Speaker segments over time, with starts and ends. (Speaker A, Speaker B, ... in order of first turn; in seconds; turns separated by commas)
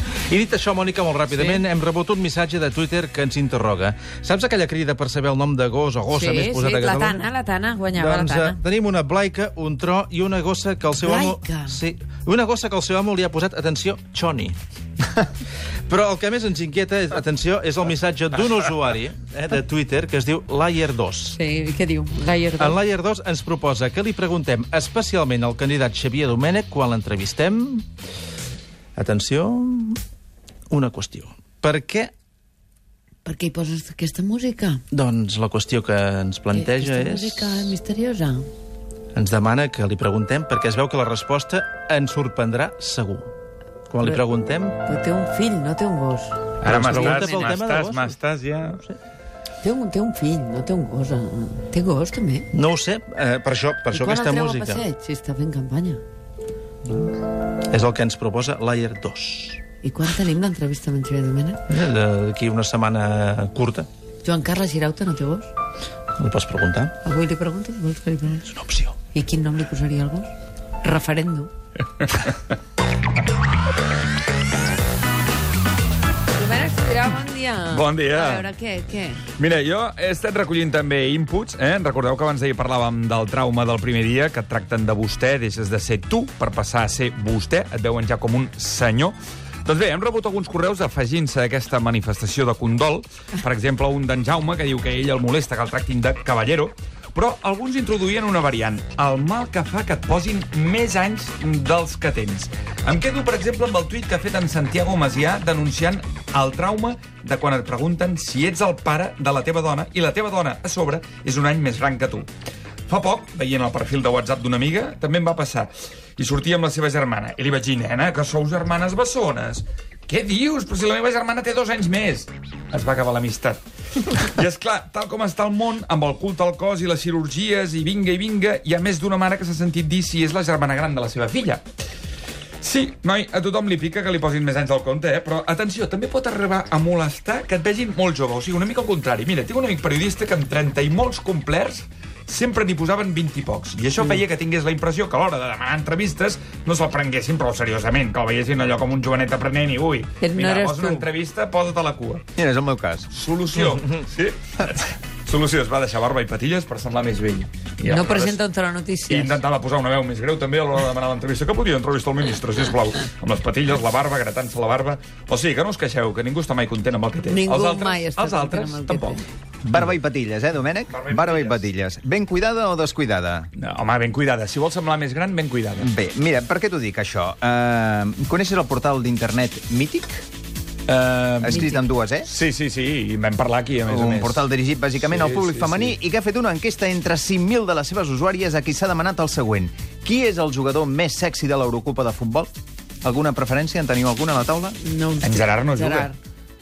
Speaker A: 0.3-7.2, Speaker B: 1.3-1.6, Speaker B: 6.1-8.6, Speaker A: 8.0-14.6, Speaker B: 11.0-11.8, Speaker A: 15.9-21.4, Speaker B: 21.3-22.8, Speaker A: 22.6-27.9, Speaker A: 29.0-30.0, Speaker A: 30.7-32.1, Speaker B: 33.2-34.8, Speaker A: 34.9-37.8, Speaker B: 36.5-38.5, Speaker A: 39.1-43.3, Speaker A: 43.9-44.8, Speaker B: 44.9-47.5, Speaker C: 46.6-48.8, Speaker A: 46.6-49.0, Speaker B: 49.6-52.5, Speaker A: 52.5-54.8, Speaker B: 53.9-56.0, Speaker A: 57.6-59.6, Speaker B: 59.8-61.7, Speaker A: 61.7-63.9, Speaker B: 64.2-65.5, Speaker A: 66.2-67.0, Speaker B: 67.0-68.5, Speaker A: 68.5-68.9, Speaker B: 69.1-70.3, Speaker B: 70.8-71.5, Speaker C: 72.0-72.3, Speaker B: 76.3-79.2, Speaker C: 77.7-78.5, Speaker C: 79.4-112.3, Speaker C: 112.9-131.6, Speaker C: 132.6-152.2, Speaker B: 150.2-151.1, Speaker D: 152.4-153.1, Speaker C: 153.1-158.4, Speaker B: 157.8-159.4, Speaker C: 159.1-169.2, Speaker B: 167.3-169.3, Speaker D: 169.6-173.5, Speaker C: 170.9-171.7, Speaker C: 173.6-175.9, Speaker D: 175.8-180.2, Speaker C: 180.9-181.6, Speaker D: 181.4-182.3, Speaker B: 181.5-181.9, Speaker C: 182.2-184.4, Speaker D: 183.9-192.5, Speaker C: 185.0-185.9, Speaker D: 193.0-194.8, Speaker B: 194.8-196.2, Speaker C: 195.2-196.1